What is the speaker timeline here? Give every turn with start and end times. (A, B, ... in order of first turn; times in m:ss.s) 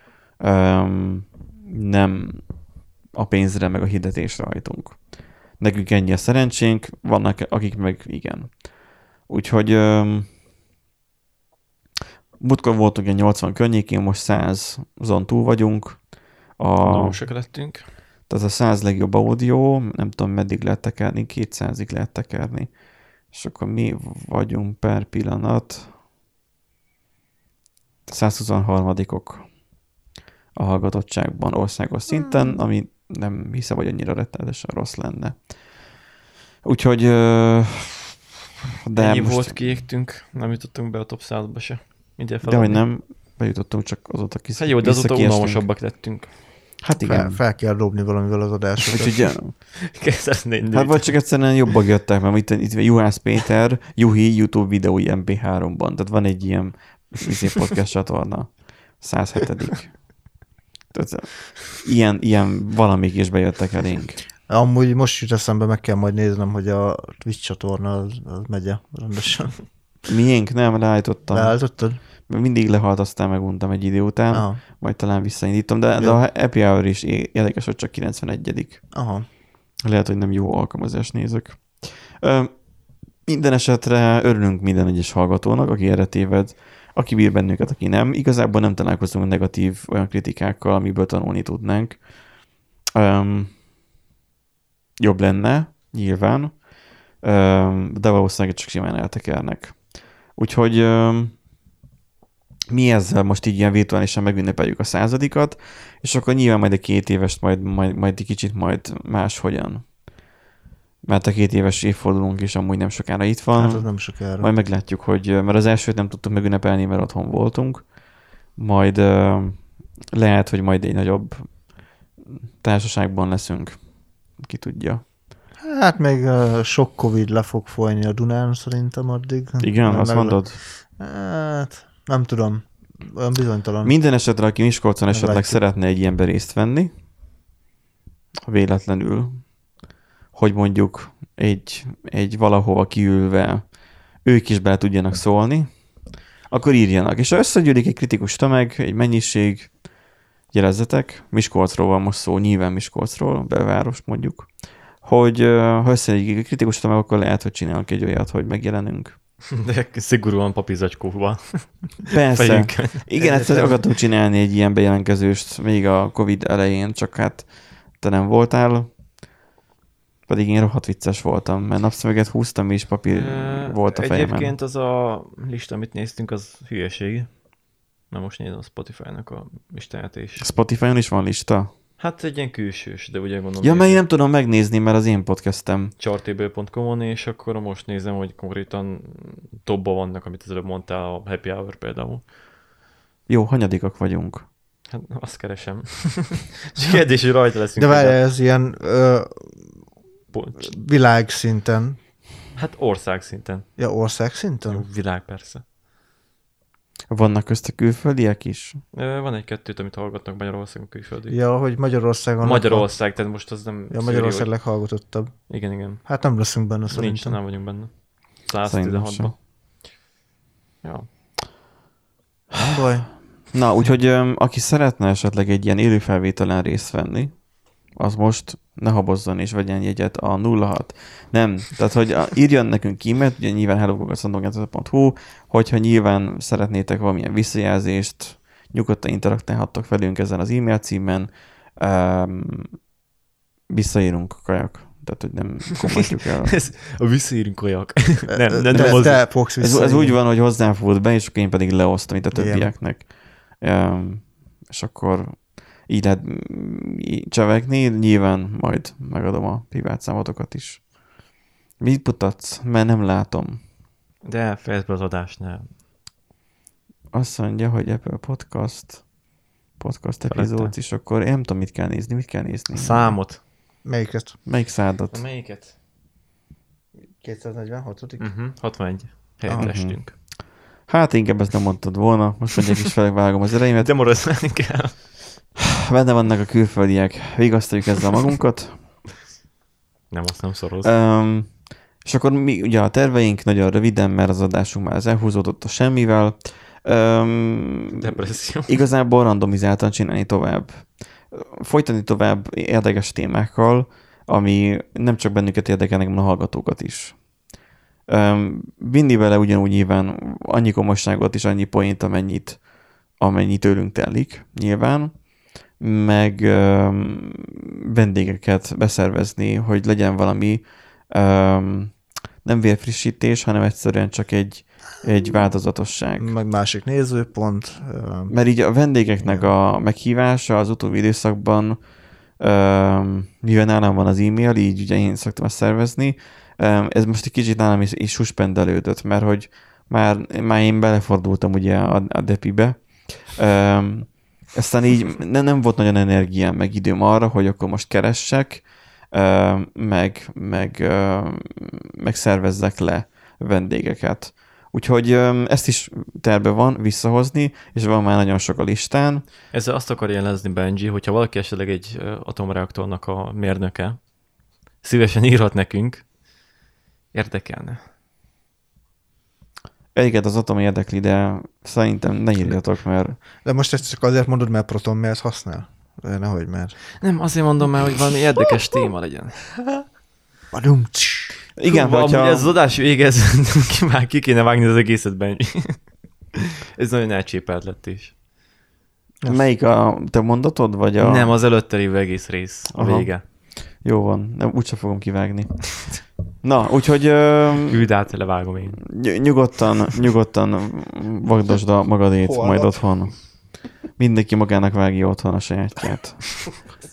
0:00.4-0:02.4 A
0:03.1-0:05.0 A
0:05.6-0:08.6 A
0:09.3-0:10.3 A
0:12.4-0:16.0 A
0:16.6-0:17.2 A
0:16.8-0:17.8 B
0:18.3-0:22.7 A
0:23.3-0:25.9 A
0:28.1-0:29.5 A
0:30.6-0:35.4 A
0:36.6-0:38.2 A
0:38.9-0:39.8 A
0:39.0-0:42.8 B
0:42.4-0:45.7 A
0:44.6-0:46.3 B
0:46.8-0:47.4 A
0:47.0-0:49.1 C
0:48.9-0:49.5 A
0:49.0-0:51.2 B
0:50.7-1:00.0 A
1:00.9-1:04.2 A
1:04.5-1:09.6 C
1:10.1-1:11.6 A
1:11.3-1:12.0 C
1:12.3-1:18.8 A
1:14.3-1:14.6 C
1:16.0-1:16.2 C
1:18.9-1:19.3 C
1:19.8-1:22.5 A
1:23.3-1:32.0 A
1:33.0-1:33.5 A
1:35.0-1:36.6 A
1:37.2-1:41.3 A
1:42.7-1:49.8 A
1:51.0-1:57.9 A
1:53.5-1:54.5 C
1:58.6-2:01.5 A
2:02.6-2:03.8 A
2:04.4-2:05.0 A
2:05.6-2:14.0 C
2:09.6-2:10.6 A
2:13.8-2:16.9 A
2:15.1-2:15.6 C
2:18.4-2:19.4 A
2:20.3-2:23.6 A
2:24.2-2:25.7 A
2:26.5-2:29.7 A
2:30.5-2:34.5 A
2:35.0-2:39.2 A
2:39.5-2:43.1 B
2:42.1-2:48.9 A
2:43.2-2:43.7 C
2:50.3-2:54.5 A
2:53.1-2:57.3 B
2:58.1-3:00.5 B
3:00.4-3:01.7 A
3:02.0-3:04.0 B
3:03.6-3:05.9 A
3:06.0-3:12.2 B
3:13.3-3:14.4 A
3:14.9-3:18.2 B
3:17.8-3:19.7 C
3:20.3-3:20.7 B
3:20.6-3:22.0 C
3:22.6-3:23.7 B
3:23.8-3:24.9 C
3:24.7-3:25.6 B
3:27.1-3:28.8 A
3:28.9-3:31.4 B
3:31.3-3:32.9 C
3:32.4-3:34.5 B
3:33.9-3:35.5 C
3:35.5-3:36.0 B
3:36.0-3:37.4 C
3:36.9-3:39.4 B
3:38.6-3:39.3 A
3:40.8-3:41.1 B
3:42.5-3:43.1 C
3:43.5-3:47.4 A
3:47.9-4:02.8 A
4:03.7-4:06.6 A
4:06.4-4:09.3 B
4:08.3-4:10.2 C
4:08.7-4:20.9 A
4:12.3-4:12.7 C
4:21.8-4:23.6 A
4:24.2-4:25.7 B
4:27.1-4:29.0 A
4:29.8-4:33.2 A
4:30.3-4:30.7 B
4:32.7-4:33.4 B
4:33.8-4:34.4 C
4:34.5-4:35.2 A
4:35.1-4:35.8 B
4:37.2-4:38.3 C
4:38.2-4:40.1 B
4:39.5-4:39.8 C
4:39.6-4:40.2 A
4:40.9-4:44.0 A
4:43.8-4:45.0 B
4:45.6-4:48.8 A
4:50.1-4:50.9 B
4:50.8-5:07.2 A
4:57.9-4:58.8 B
5:08.1-5:12.6 A
5:13.2-5:15.1 A
5:15.8-5:26.3 A
5:26.2-5:28.4 C
5:28.3-5:31.8 A
5:29.2-5:29.5 C
5:32.4-5:59.2 A
5:59.5-6:04.0 B
6:04.8-6:06.1 B
6:07.1-6:07.8 B
6:10.0-6:13.2 A
6:13.4-6:16.8 C
6:17.0-6:19.5 B
6:20.5-6:21.4 C
6:21.6-6:22.5 A
6:21.6-6:25.9 B
6:26.8-6:28.2 B
6:29.2-6:29.5 C
6:29.3-6:31.4 A
6:31.0-6:33.2 B
6:32.7-6:33.1 A
6:33.8-6:37.9 A
6:37.6-6:38.8 B
6:38.8-6:43.3 A
6:42.3-6:42.8 C
6:44.0-6:46.5 A